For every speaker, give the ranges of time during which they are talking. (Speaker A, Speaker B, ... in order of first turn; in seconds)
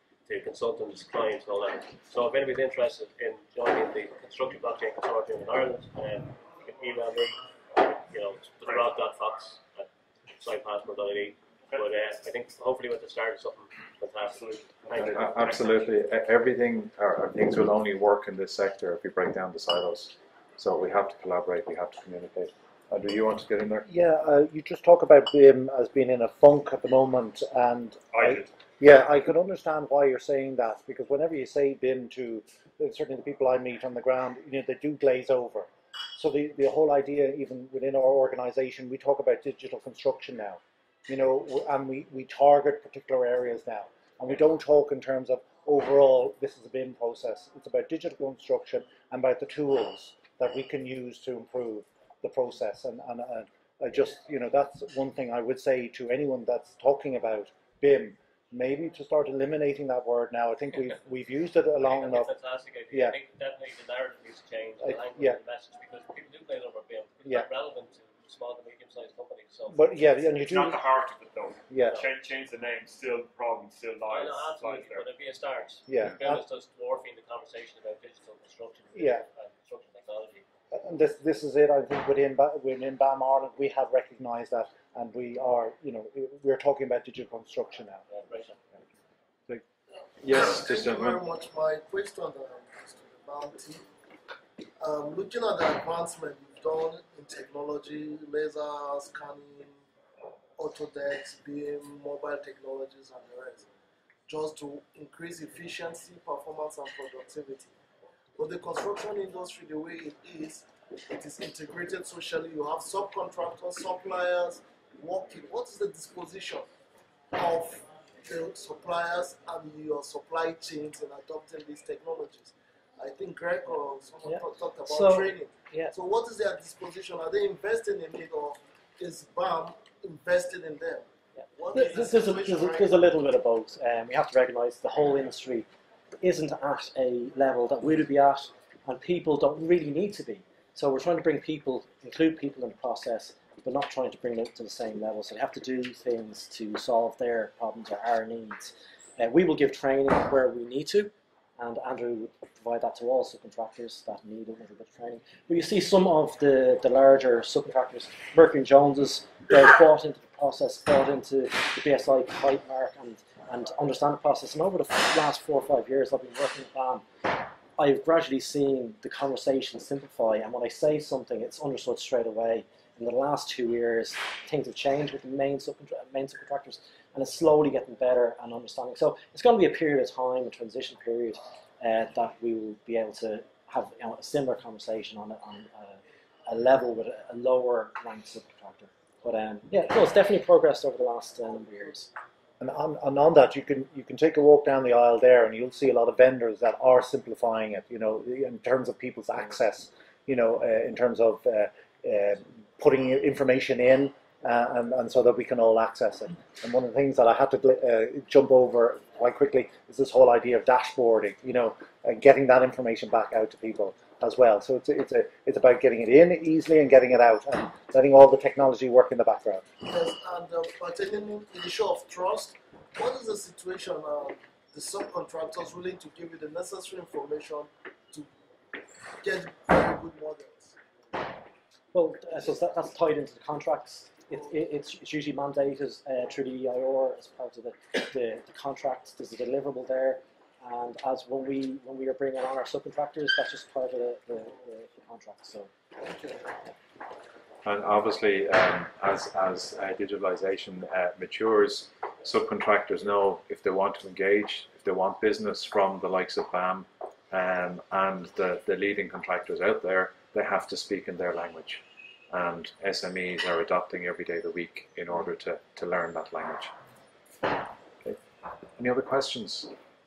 Speaker A: 0.2-15.2, 61.8-70.4, 74.1-80.4, 88.1-88.6
Speaker B: 14.3-15.8, 28.1-28.5, 70.4-75.1
Speaker C: 15.0-23.9, 90.2-91.2, 247.6-266.7, 268.8-269.7
Speaker D: 23.9-62.3, 64.8-65.4, 69.7-70.8, 71.7-72.0, 75.9-76.4, 78.9-79.2, 80.7-88.0, 192.6-219.7
Speaker E: 90.3-93.8, 94.8-99.8, 100.6-103.7, 104.3-107.7, 108.4-116.7, 117.3-133.0, 219.8-228.3, 229.2-230.8
Speaker F: 124.2-125.9, 131.4-135.7, 136.2-192.1, 231.9-245.7